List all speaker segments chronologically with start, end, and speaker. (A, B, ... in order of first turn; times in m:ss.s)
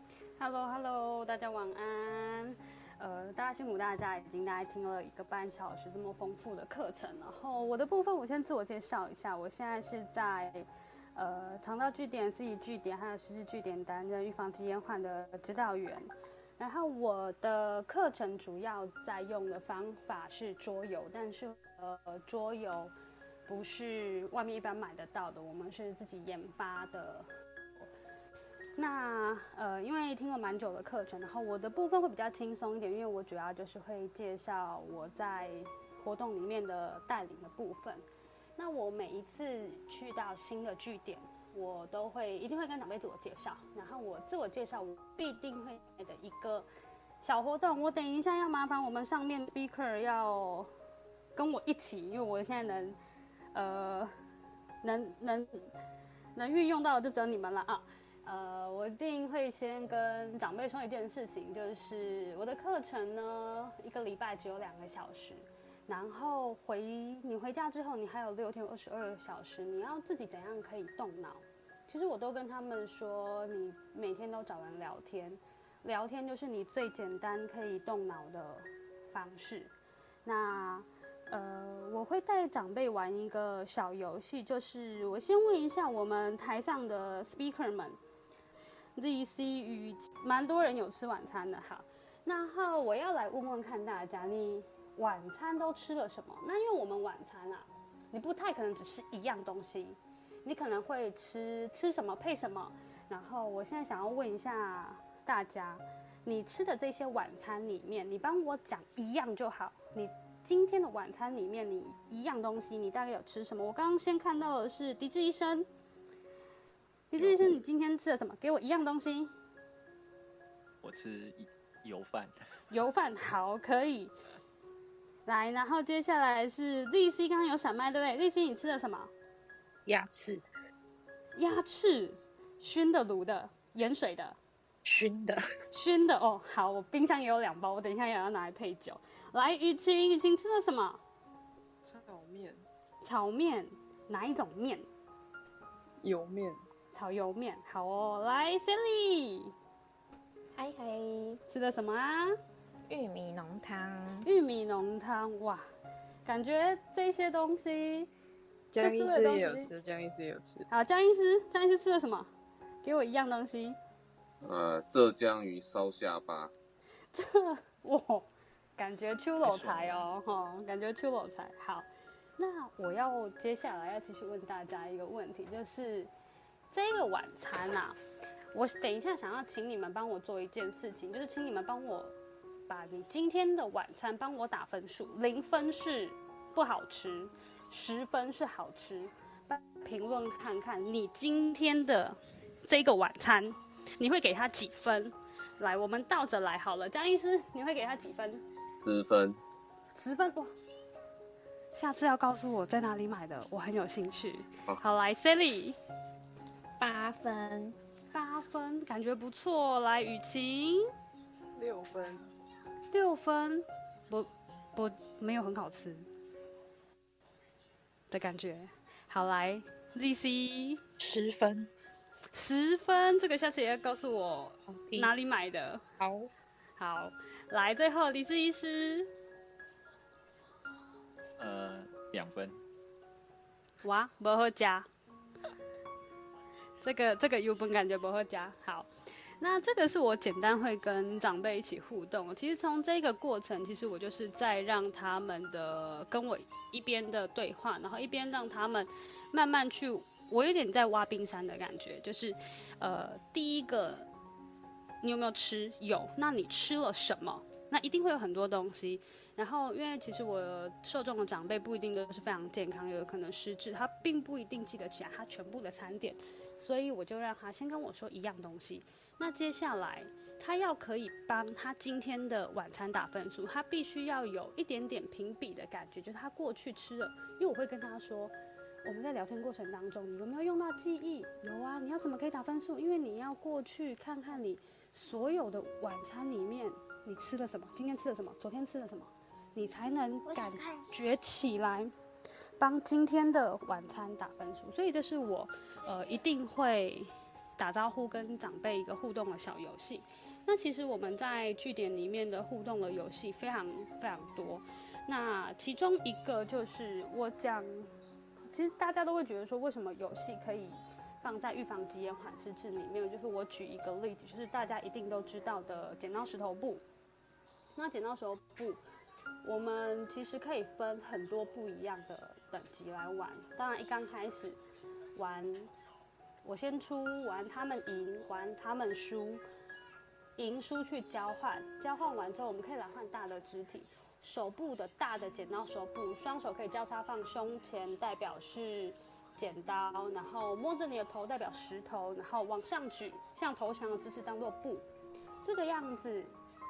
0:00.4-0:22.9 A
0:23.5-0:27.3 A
0:28.8-0:38.0 A
0:38.6-0:46.7 A
0:47.2-0:50.7 A
0:51.3-0:53.0 A
0:53.5-0:54.1 A
0:54.8-0:55.5 A
0:56.3-1:19.7 A
1:20.2-1:28.0 A
1:29.0-1:55.7 A
1:57.1-1:59.3 A
1:57.2-1:57.6 B
2:00.8-2:02.3 B
2:02.7-2:04.1 A
2:05.2-2:09.1 A
2:09.8-2:10.4 C
2:11.4-2:14.4 A
2:14.8-2:15.4 C
2:15.7-2:21.0 A
2:21.8-2:22.6 D
2:23.0-2:24.8 A
2:26.0-2:26.6 D
2:26.9-2:29.5 A
2:30.5-2:31.4 E
2:31.5-2:32.4 A
2:32.9-2:34.3 E
2:34.2-2:35.6 A
2:36.2-2:38.1 A
2:38.7-2:40.7 D
2:38.8-2:39.7 A
2:40.7-2:42.3 A
2:42.8-2:43.8 A
2:44.4-2:46.5 F
2:47.1-2:51.9 A
2:49.4-2:50.1 B
2:52.4-2:56.1 A
2:56.7-2:58.0 A
2:58.5-3:02.1 A
3:02.7-3:18.4 A
3:18.8-3:19.4 F
3:19.9-3:20.5 A
3:21.7-3:25.8 A
3:26.8-3:27.8 E
3:28.1-3:30.9 A
3:31.6-3:32.2 D
3:32.9-3:36.1 A
3:38.1-3:40.8 A
3:41.0-3:41.7 C
3:42.3-3:45.8 A
3:44.7-3:45.1 C
3:46.0-3:46.3 C
3:46.8-3:49.1 A
3:51.4-3:52.6 B
3:53.8-3:54.9 A
3:56.8-3:58.9 A
3:59.4-4:14.1 A
4:15.0-4:38.3 A
4:38.8-4:51.9 A
4:52.6-5:07.9 A
5:08.5-5:16.8 A
5:17.8-5:18.8 A
5:19.4-5:24.6 A
5:25.1-5:25.7 A
5:26.4-5:29.4 A
5:30.4-5:44.8 A
5:45.4-5:46.3 A